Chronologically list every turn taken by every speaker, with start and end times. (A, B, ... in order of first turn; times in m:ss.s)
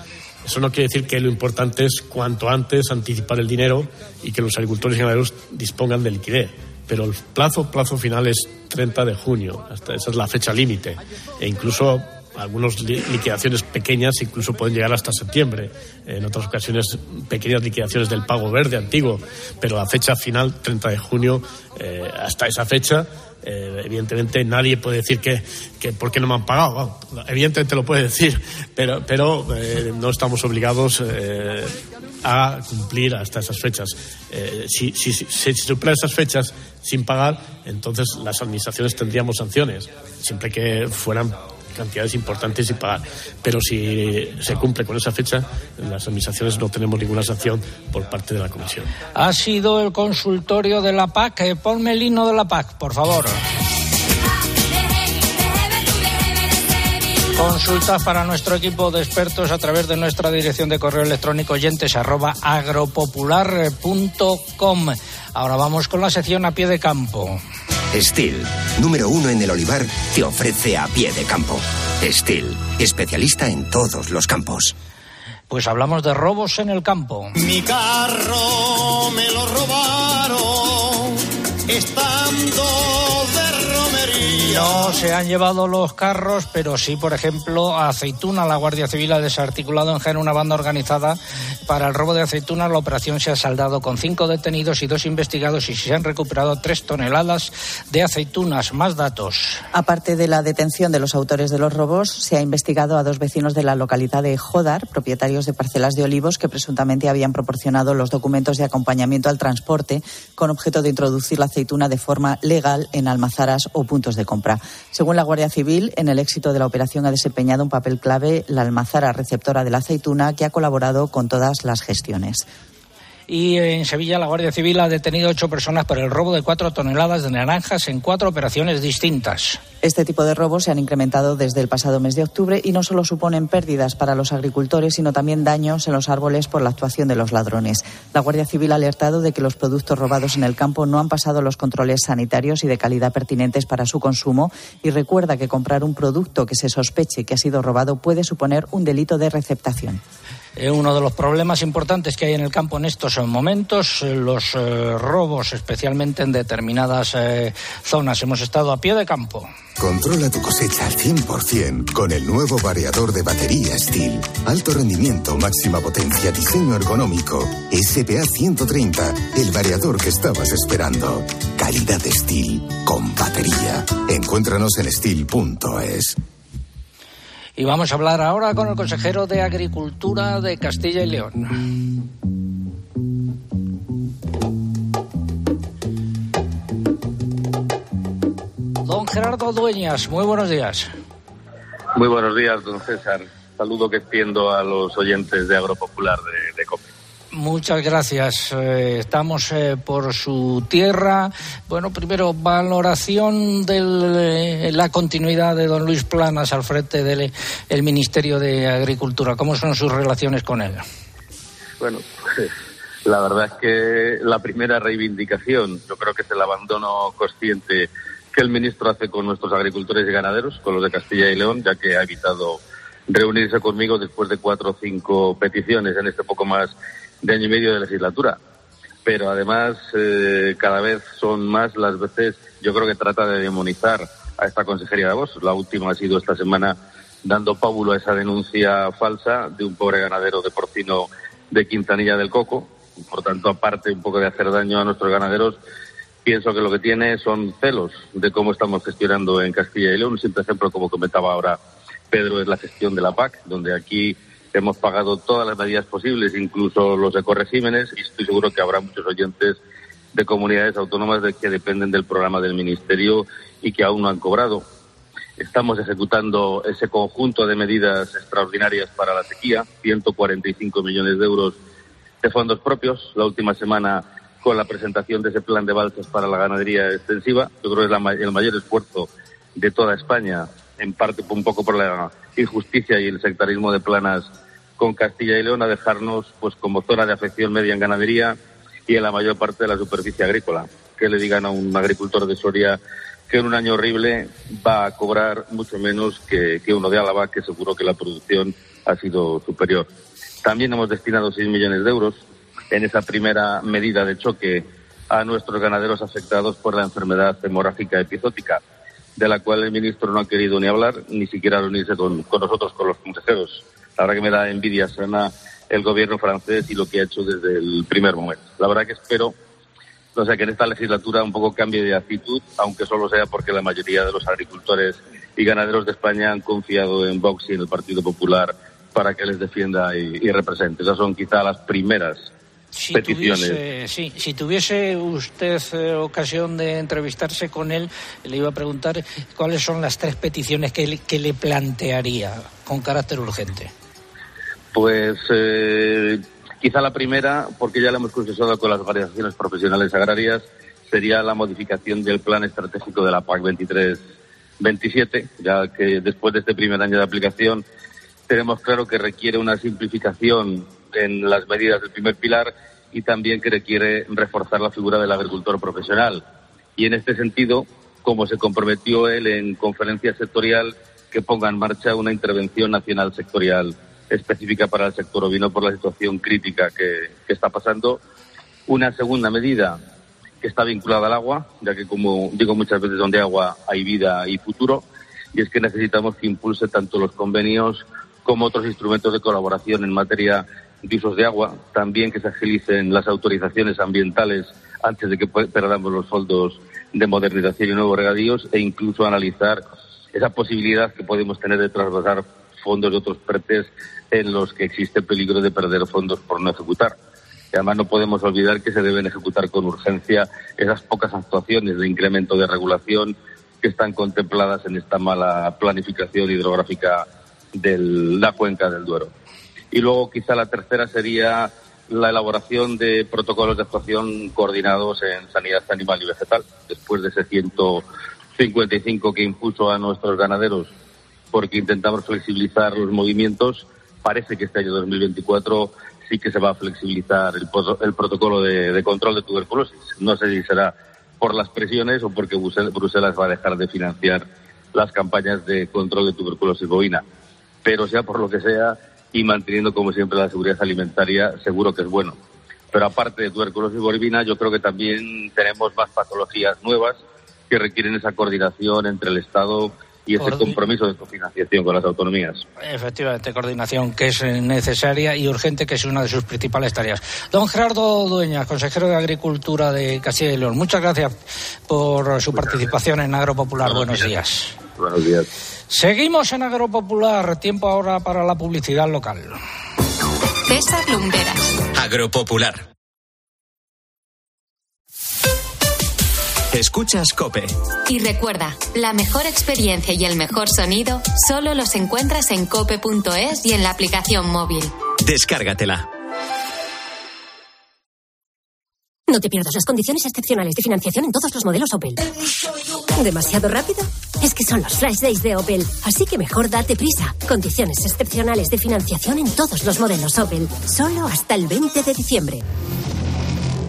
0:00.4-0:48.9 A
0:49.2-0:53.4 B
0:57.3-1:07.4 B
1:07.9-1:14.7 C
1:15.5-1:17.3 B
1:17.4-1:25.0 D
1:24.4-1:39.6 B
1:39.7-2:02.4 E
2:03.3-2:09.6 B
2:09.8-2:30.0 E
2:30.6-2:39.5 B
2:39.8-2:56.2 F
2:57.6-3:01.5 B
3:08.8-3:10.9 B
3:11.9-3:16.9 G
3:17.3-3:30.8 B
3:31.8-3:32.5 G
3:33.0-3:48.4 G
3:49.0-4:05.6 G
4:06.2-4:11.6 G
4:12.1-4:19.6 G
4:20.1-4:24.6 G
4:25.4-4:31.6 G
4:32.2-4:48.4 G
4:48.9-4:59.9 G
5:00.4-5:08.6 G
5:09.2-5:19.3 G
5:20.1-5:32.3 G
5:32.7-5:43.7 B
5:32.9-5:33.6 G
5:44.7-5:54.0 G
5:54.6-5:57.6 G
5:58.3-6:06.2 G
6:06.8-6:18.0 G
6:18.7-6:19.8 G
6:20.4-6:39.6 G
6:40.1-6:46.9 G
6:47.5-6:59.1 G
6:59.7-7:07.8 G
7:08.4-7:10.7 G
7:11.3-7:27.0 G
7:27.6-7:32.2 G
7:32.7-7:37.0 G
7:37.5-7:42.4 G
7:40.2-7:40.6 B
7:42.6-7:51.1 B
7:51.7-7:54.5 B
7:53.6-7:54.1 G
7:54.8-7:55.3 G
7:55.7-7:59.4 B
8:00.5-8:01.6 H
8:01.7-8:02.6 C
8:06.5-8:07.5 C
8:07.9-8:14.7 H
8:15.0-8:15.9 C
8:19.1-8:22.0 I
8:22.9-8:32.4 I